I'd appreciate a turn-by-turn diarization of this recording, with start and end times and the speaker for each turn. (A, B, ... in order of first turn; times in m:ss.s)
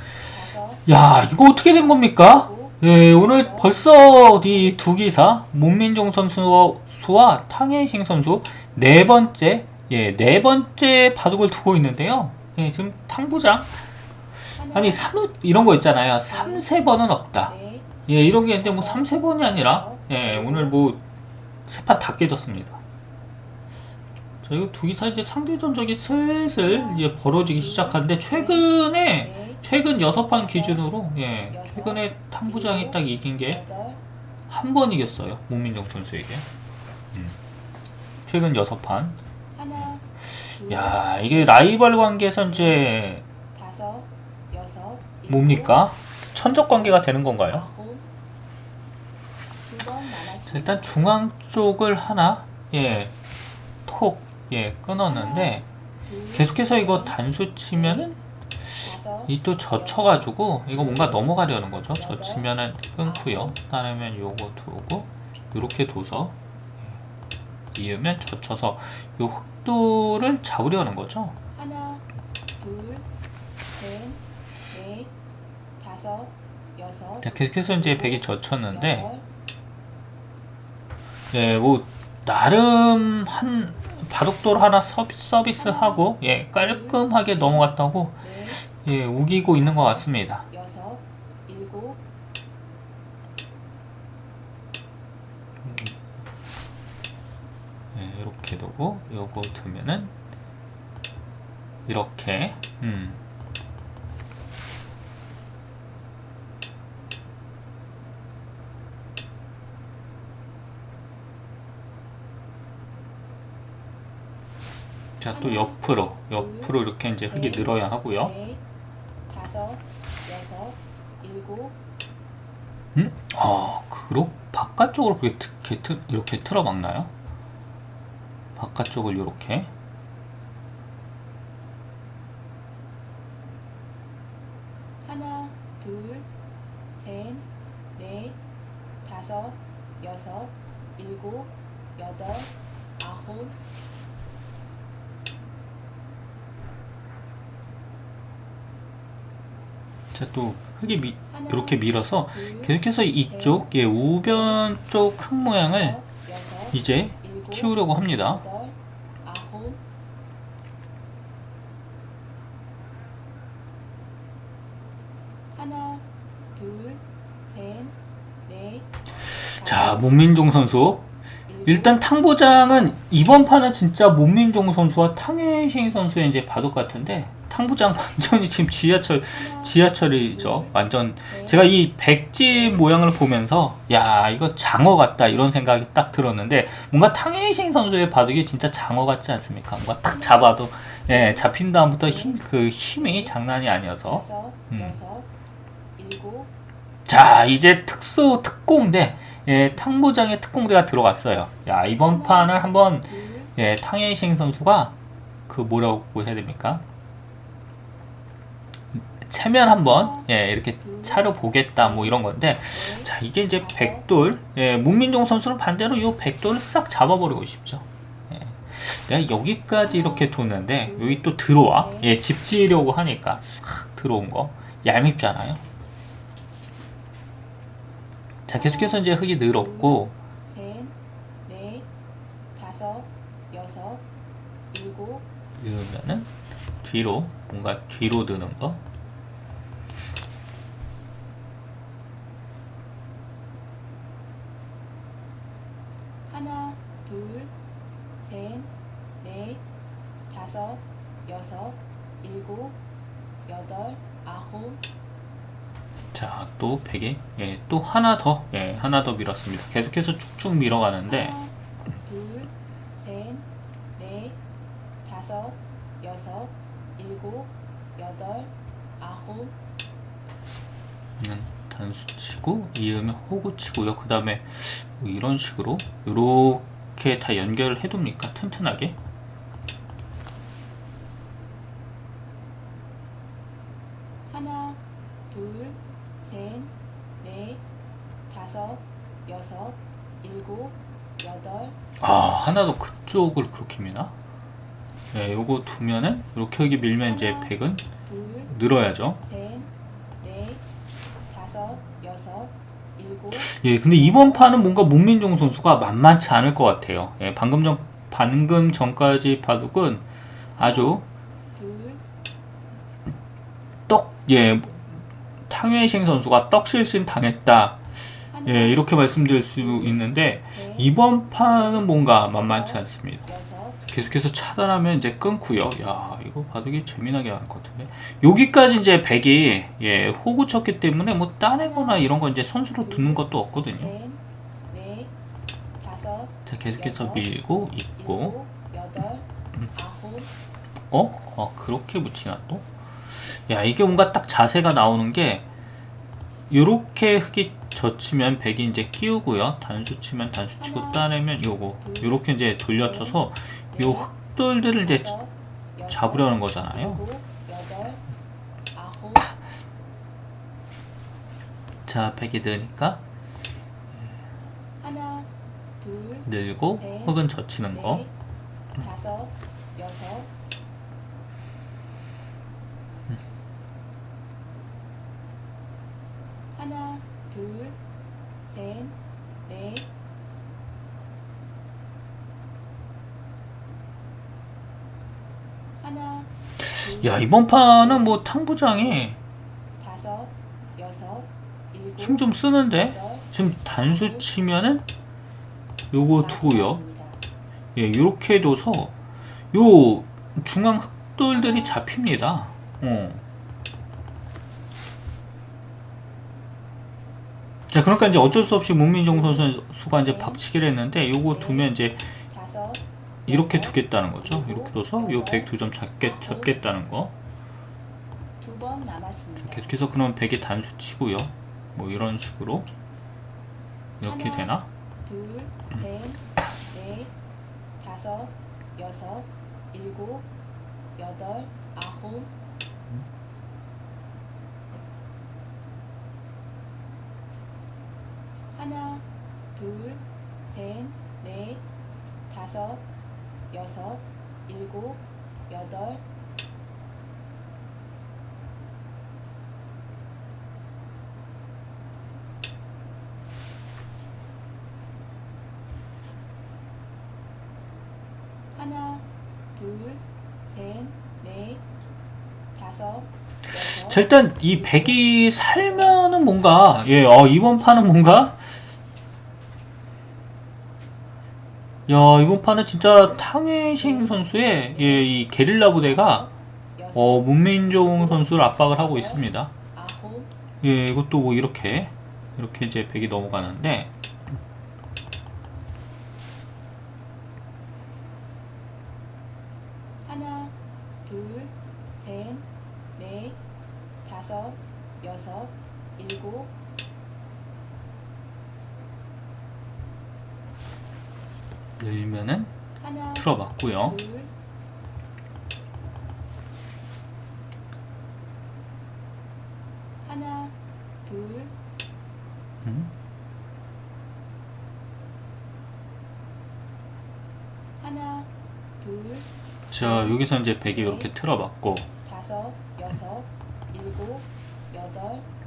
0:00.4-0:00.8 A
0:00.8-0:13.7 B
0:14.5-0:17.6 B
0:18.1-0:21.0 B
0:19.0-0:20.0 A
0:21.7-0:22.8 B
0:24.4-0:33.7 B
0:33.6-0:34.0 A
0:34.5-0:36.4 B
0:38.2-0:39.2 B
0:39.7-0:43.2 B
0:43.5-0:45.3 A
0:45.3-0:47.7 B
0:47.7-0:48.0 A
0:49.7-0:50.8 A
0:50.3-0:53.1 B
0:53.8-0:55.6 B
0:56.3-0:58.2 B
0:56.5-0:57.1 A
0:58.8-0:59.3 A
0:59.2-1:07.0 B
1:07.7-1:11.4 B
1:12.6-1:13.0 A
1:13.8-1:14.2 A
1:14.7-1:15.1 A
1:15.8-1:18.2 A
1:17.2-1:19.1 B
1:21.3-1:30.5 B
1:30.5-1:32.0 A
1:35.6-1:36.0 B
1:37.9-1:40.1 B
1:41.8-1:43.2 B
1:55.2-1:58.4 B
1:59.3-2:01.7 A
2:02.9-2:07.1 B
2:08.6-2:09.7 B
2:15.1-2:16.2 A
2:17.0-2:17.4 A
2:18.0-2:18.3 A
2:19.0-2:22.5 A
2:23.0-2:23.5 A
2:30.1-2:36.1 B
2:36.2-2:36.5 A
2:36.7-2:38.4 B
2:38.4-2:38.7 A
2:39.2-2:39.7 A
2:46.6-2:47.0 A
2:47.5-2:47.9 A
2:48.5-2:48.8 A
2:49.4-2:51.1 B
2:51.6-3:15.0 B
3:14.2-3:15.2 A
3:16.0-3:16.4 A
3:17.0-3:24.9 B
3:25.5-3:26.8 B
3:28.9-3:45.6 B
3:48.5-3:50.1 B
3:50.5-3:50.9 A
3:51.5-3:51.8 A
3:52.6-3:54.0 A
3:54.7-3:55.2 A
3:55.6-3:56.3 B
3:56.8-3:58.8 B
4:06.4-4:07.4 A
4:08.2-4:08.6 A
4:09.2-4:09.6 A
4:10.3-4:12.7 A
4:13.5-4:14.8 A
4:16.1-4:21.4 B
4:22.0-4:23.4 A
4:24.0-4:24.3 A
4:25.0-4:28.5 A
4:29.0-4:29.5 A
4:31.2-4:39.0 B
4:44.4-4:44.7 A
4:45.3-4:46.7 A
4:47.2-4:47.6 A
4:48.3-4:51.7 A
4:52.0-4:54.1 B
4:55.1-4:57.8 B
4:58.4-4:59.2 B
4:59.3-4:59.6 A
5:00.2-5:00.6 A
5:01.3-5:03.3 A
5:03.3-5:10.0 B
5:10.6-5:11.0 B
5:11.6-5:11.9 A
5:13.9-5:14.9 B
5:15.5-5:17.8 B
5:18.4-5:23.3 B
5:23.3-5:23.7 A
5:23.8-5:34.0 B
5:34.7-5:35.1 A
5:35.8-5:36.3 A
5:36.4-5:38.4 B
5:38.4-5:39.2 A
5:39.8-5:40.3 A
5:40.9-5:42.7 B
5:43.2-5:45.4 B
5:46.5-5:55.2 B
5:55.9-5:57.0 B
5:56.9-5:58.0 A
5:58.8-5:59.2 A
6:01.8-6:03.0 B
6:05.8-6:06.2 A
6:06.2-6:08.1 B
6:08.8-6:10.2 A
6:17.3-6:17.7 A
6:18.6-6:18.8 A
6:19.5-6:19.8 A
6:26.6-6:29.2 B
6:29.8-6:31.2 A
6:32.0-6:34.8 B
6:35.9-6:36.8 B
6:36.4-6:37.2 A
6:37.7-6:38.9 B
6:39.5-6:43.2 B
6:47.7-6:52.1 B
6:52.3-6:52.8 A
6:53.2-6:57.1 B
6:54.5-6:54.8 A
6:58.4-6:59.7 A
6:59.4-7:02.7 B
7:04.0-7:04.7 B
7:05.1-7:06.2 A
7:06.7-7:07.1 A
7:07.8-7:10.2 A
7:11.0-7:12.2 A
7:19.6-7:20.0 A
7:20.5-7:21.6 A
7:22.3-7:22.8 A
7:23.5-7:26.0 A
7:39.6-7:39.9 A
7:40.5-7:41.6 A
7:42.6-7:43.0 A
7:43.5-7:48.4 B
7:43.5-7:43.9 A
7:51.9-7:56.3 B
7:56.9-7:59.5 B
7:59.8-8:00.2 A
8:00.6-8:03.9 B
8:11.1-8:11.4 A
8:12.0-8:12.3 A
8:13.0-8:13.3 A
8:14.0-8:14.5 A
8:15.0-8:15.5 A
8:16.0-8:16.4 A
8:21.8-8:22.5 B
8:23.1-8:24.0 B
8:32.6-8:32.9 B
8:38.8-8:39.1 A
8:39.7-8:41.9 B
8:42.1-8:45.2 A